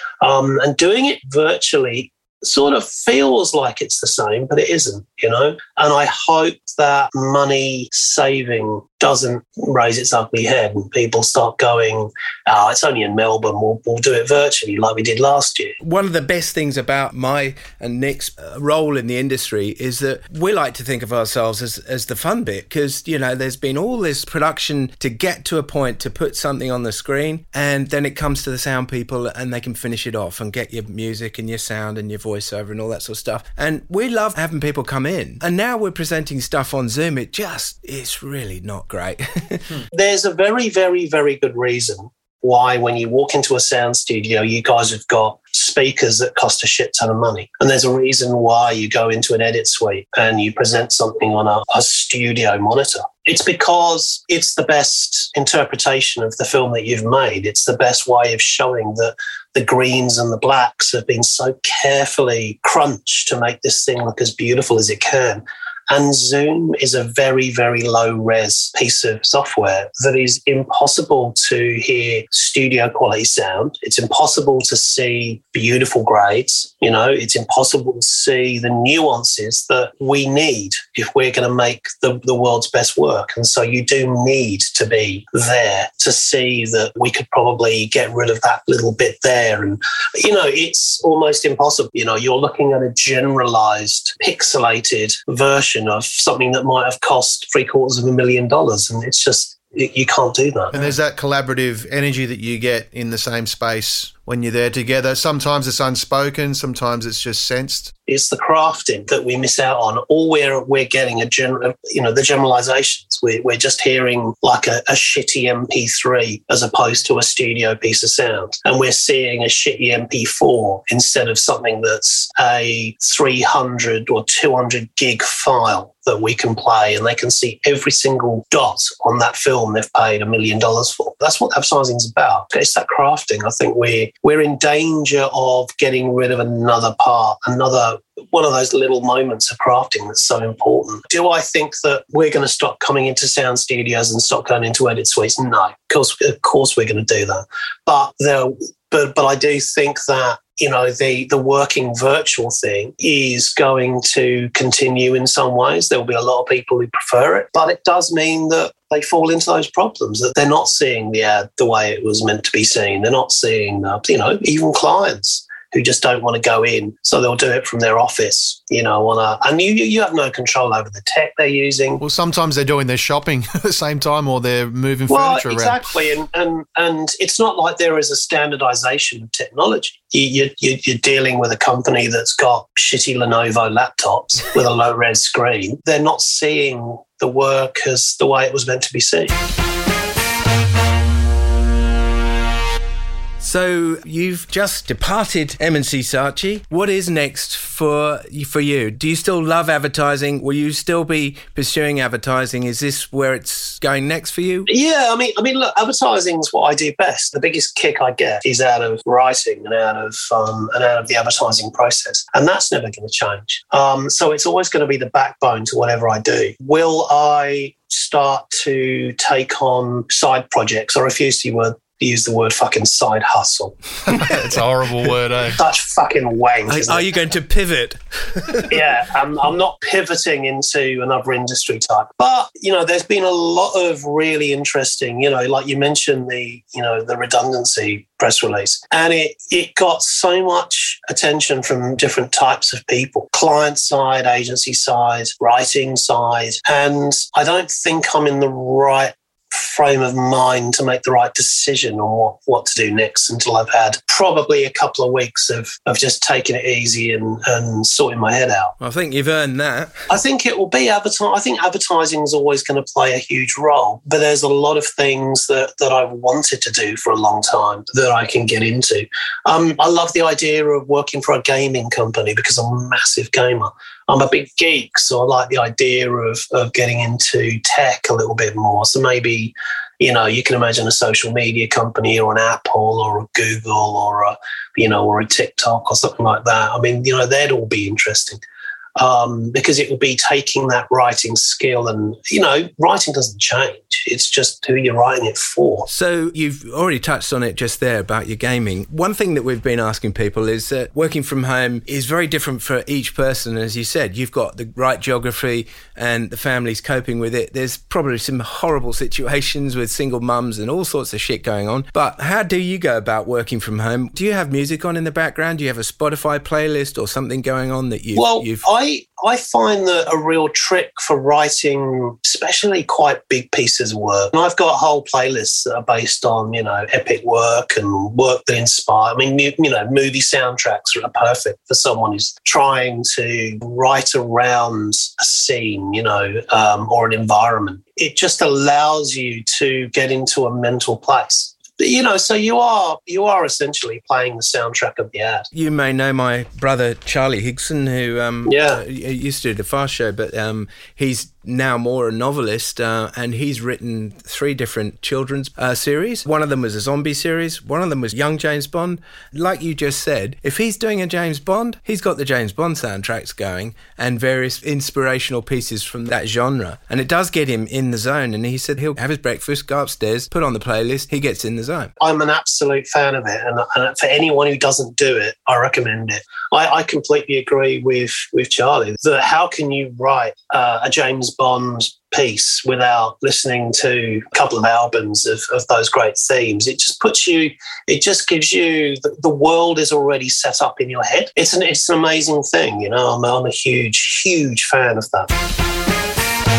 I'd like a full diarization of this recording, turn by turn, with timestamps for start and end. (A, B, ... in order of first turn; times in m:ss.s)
0:00.2-0:15.8 A
0:15.8-0:39.7 B
0:39.9-1:40.8 A
1:40.7-1:47.9 C
1:48.1-2:52.0 A
2:52.0-2:56.0 C
2:55.1-3:09.3 A
3:13.4-3:24.7 B
3:24.7-3:43.8 A
3:44.1-3:45.6 C
3:45.6-3:47.1 A
3:46.7-3:48.8 B
3:48.7-4:18.7 A
4:18.8-4:20.0 B
4:20.1-4:48.4 A
4:49.0-4:55.9 A
4:55.9-5:18.6 B
5:18.2-5:45.5 A
5:45.5-6:11.9 B
5:48.5-5:48.8 A
6:12.0-6:35.3 A